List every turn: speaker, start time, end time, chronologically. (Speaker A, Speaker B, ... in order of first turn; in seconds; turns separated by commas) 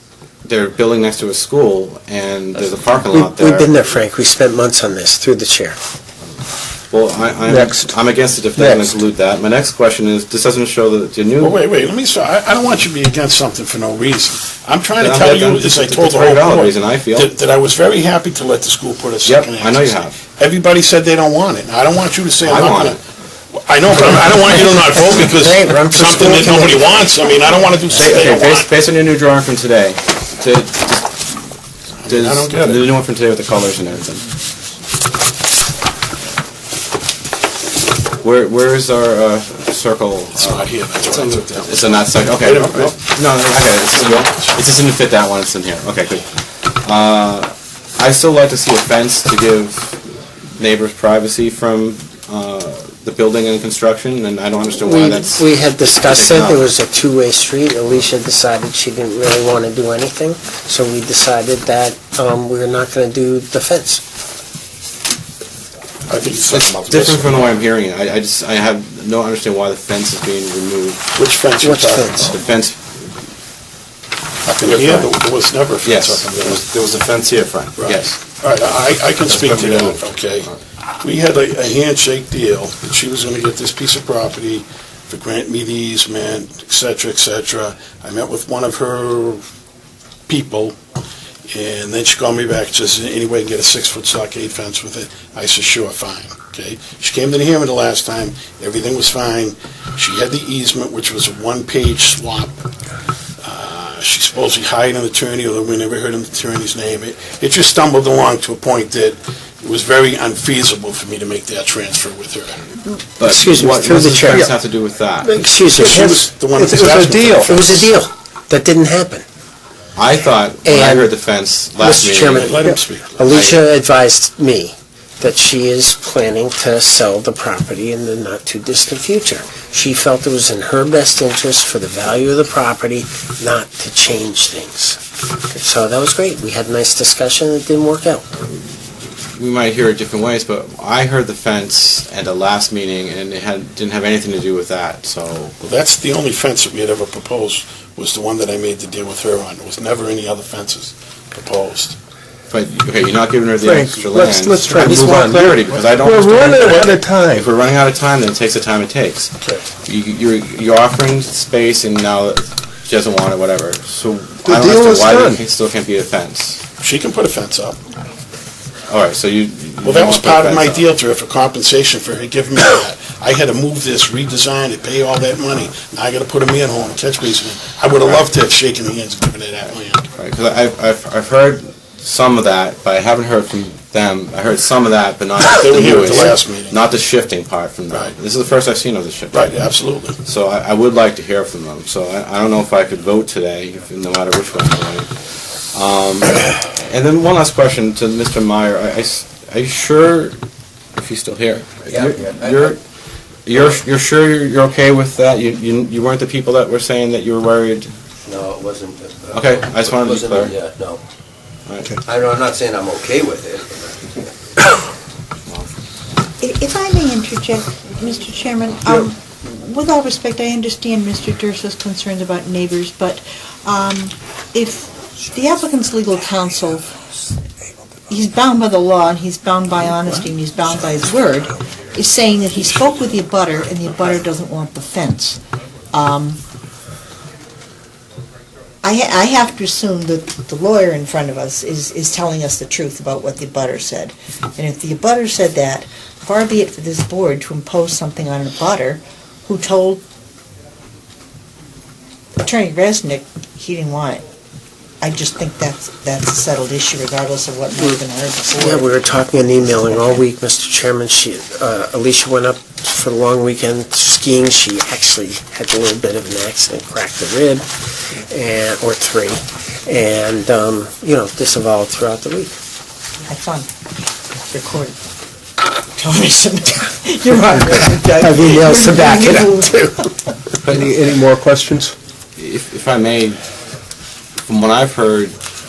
Speaker A: 0.5-3.7, Speaker B: 2.6-2.9, Speaker C: 3.1-5.8, Speaker A: 6.9-11.6, Speaker D: 7.5-7.9, Speaker C: 8.6-8.9, Speaker E: 11.4-23.0, Speaker A: 15.0-17.3, Speaker A: 19.2-20.2, Speaker A: 22.4-23.0, Speaker E: 23.5-28.6, Speaker C: 23.9-27.0, Speaker A: 27.9-31.3, Speaker E: 32.0-32.9, Speaker A: 32.0-34.2, Speaker A: 38.2-50.0, Speaker E: 40.3-44.6, Speaker A: 50.6-56.7, Speaker C: 54.7-64.0, Speaker E: 66.1-67.5, Speaker A: 66.5-71.1, Speaker E: 71.2-72.4, Speaker C: 71.6-72.3, Speaker A: 72.3-72.9, Speaker E: 74.4-76.6, Speaker A: 74.6-75.0, Speaker A: 75.8-78.7, Speaker E: 77.8-89.4, Speaker A: 79.2-80.6, Speaker E: 90.3-90.8, Speaker E: 91.5-102.6, Speaker E: 103.4-112.6, Speaker C: 112.8-114.5, Speaker A: 113.2-115.3, Speaker C: 115.2-116.2, Speaker E: 115.7-117.9, Speaker D: 115.8-117.5, Speaker C: 117.5-119.2, Speaker A: 120.0-122.6, Speaker C: 120.6-121.1, Speaker C: 121.8-135.0, Speaker E: 122.3-123.5, Speaker A: 123.3-123.6, Speaker C: 135.5-138.2, Speaker A: 139.3-145.5, Speaker E: 145.6-152.0, Speaker A: 152.5-159.3, Speaker D: 153.6-157.5, Speaker E: 156.6-156.9, Speaker A: 159.8-166.6, Speaker D: 164.4-165.4, Speaker E: 166.8-167.8, Speaker A: 168.9-170.9, Speaker E: 169.8-180.0, Speaker A: 180.2-189.5, Speaker E: 185.5-186.8, Speaker E: 189.3-190.2, Speaker A: 190.2-195.1, Speaker A: 195.7-200.4, Speaker A: 200.9-202.8, Speaker B: 201.9-202.7, Speaker A: 203.4-207.9, Speaker B: 208.2-211.0, Speaker A: 209.3-210.6, Speaker A: 211.7-212.0, Speaker B: 212.1-214.3, Speaker F: 216.4-226.9, Speaker F: 228.1-235.4, Speaker F: 235.9-236.4, Speaker F: 238.8-250.0, Speaker F: 252.4-254.2, Speaker F: 255.0-258.9, Speaker C: 258.5-267.7, Speaker F: 259.7-260.2, Speaker C: 268.3-272.6, Speaker F: 273.2-273.7, Speaker F: 274.5-275.0, Speaker F: 275.9-280.1, Speaker C: 278.3-279.9, Speaker D: 278.4-278.9, Speaker D: 280.6-281.9, Speaker A: 282.4-283.4, Speaker A: 284.5-285.3